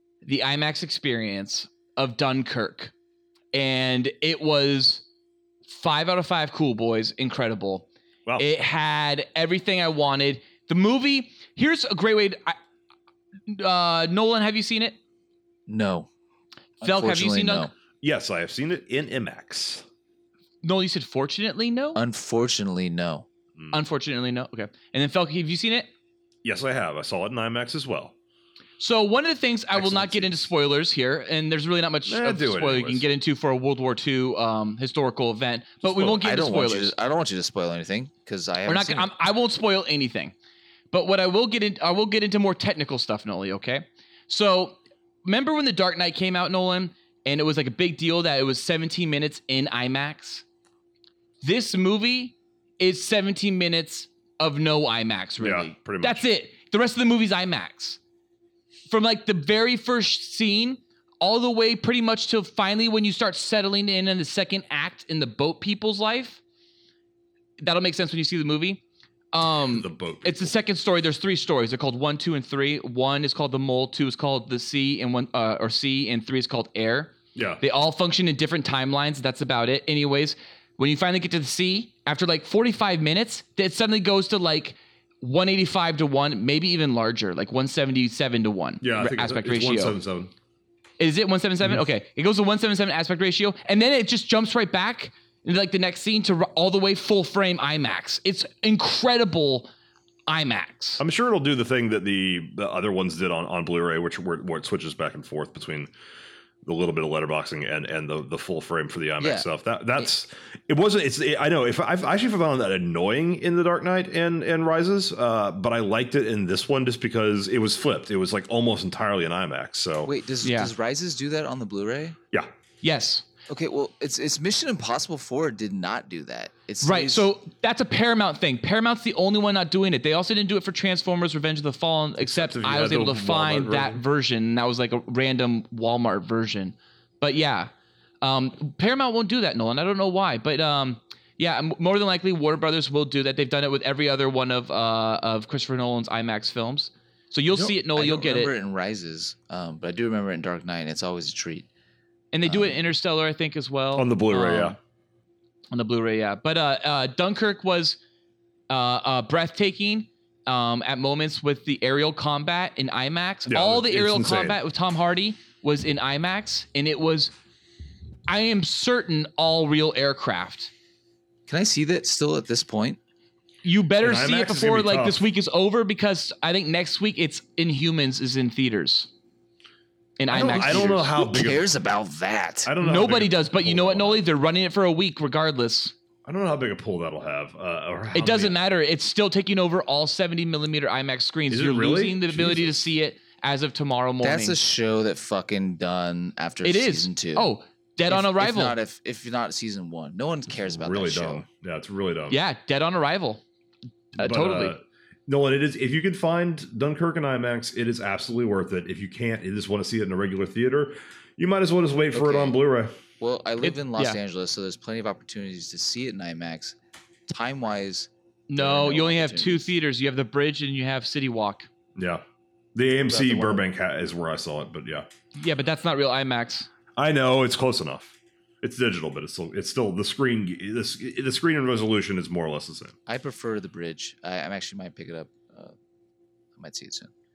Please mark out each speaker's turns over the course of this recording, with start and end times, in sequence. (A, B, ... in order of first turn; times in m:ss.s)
0:00.2-0:02.9 A
0:03.5-0:05.0 A
0:05.7-0:07.9 A
0:08.4-0:12.6 A
0:13.5-0:15.0 A
0:15.7-0:16.1 B
0:16.8-0:17.7 A
0:16.8-0:17.7 B
0:18.0-0:19.8 C
0:20.6-0:22.0 A
0:22.0-0:23.2 B
0:23.7-0:25.9 A
0:26.4-0:28.1 C
0:28.8-0:36.9 A
0:29.7-0:30.3 B
0:32.1-0:33.0 C
0:35.8-0:36.1 C
0:36.0-0:39.1 B
0:38.7-0:40.3 A
0:40.9-0:50.4 A
0:51.4-0:58.0 A
0:55.4-0:56.2 C
0:58.9-1:06.4 A
1:07.6-1:08.8 A
1:09.3-1:30.0 A
1:09.7-1:10.5 C
1:17.4-1:17.6 C
1:28.8-1:30.3 C
1:31.0-1:39.7 A
1:40.3-1:41.0 A
1:41.0-1:45.9 C
1:46.6-2:00.1 C
1:49.2-1:49.5 B
2:00.0-2:02.2 B
2:00.4-2:00.7 A
2:02.8-2:03.2 A
2:03.5-2:07.3 B
2:06.8-2:17.7 A
2:12.2-2:14.0 C
2:18.2-2:28.5 A
2:27.5-2:31.7 B
2:32.3-2:34.8 A
2:32.4-2:32.8 B
2:34.0-2:34.8 C
2:35.7-2:38.0 A
2:38.7-2:47.3 A
2:43.5-2:44.6 C
2:48.3-2:50.7 A
2:51.5-2:53.0 B
2:53.6-2:59.1 A
2:54.0-2:55.2 C
3:00.2-3:01.1 A
3:00.3-3:01.7 C
3:00.4-3:02.7 B
3:02.6-3:04.2 C
3:02.8-3:05.9 A
3:06.2-3:08.6 C
3:08.1-3:14.6 A
3:11.5-3:12.8 C
3:14.2-3:17.5 B
3:16.6-3:18.8 A
3:18.1-3:21.4 B
3:20.6-3:22.4 C
3:22.3-3:23.4 A
3:24.2-3:24.8 A
3:24.2-3:32.9 C
3:32.1-3:32.6 B
3:33.2-3:36.8 B
3:33.6-3:34.2 A
3:37.3-3:39.7 B
3:38.5-3:41.7 A
3:42.0-3:42.2 C
3:42.8-3:45.1 C
3:43.1-3:43.6 B
3:45.4-3:46.7 A
3:47.0-3:52.9 C
3:53.1-3:55.8 B
3:56.6-3:57.1 B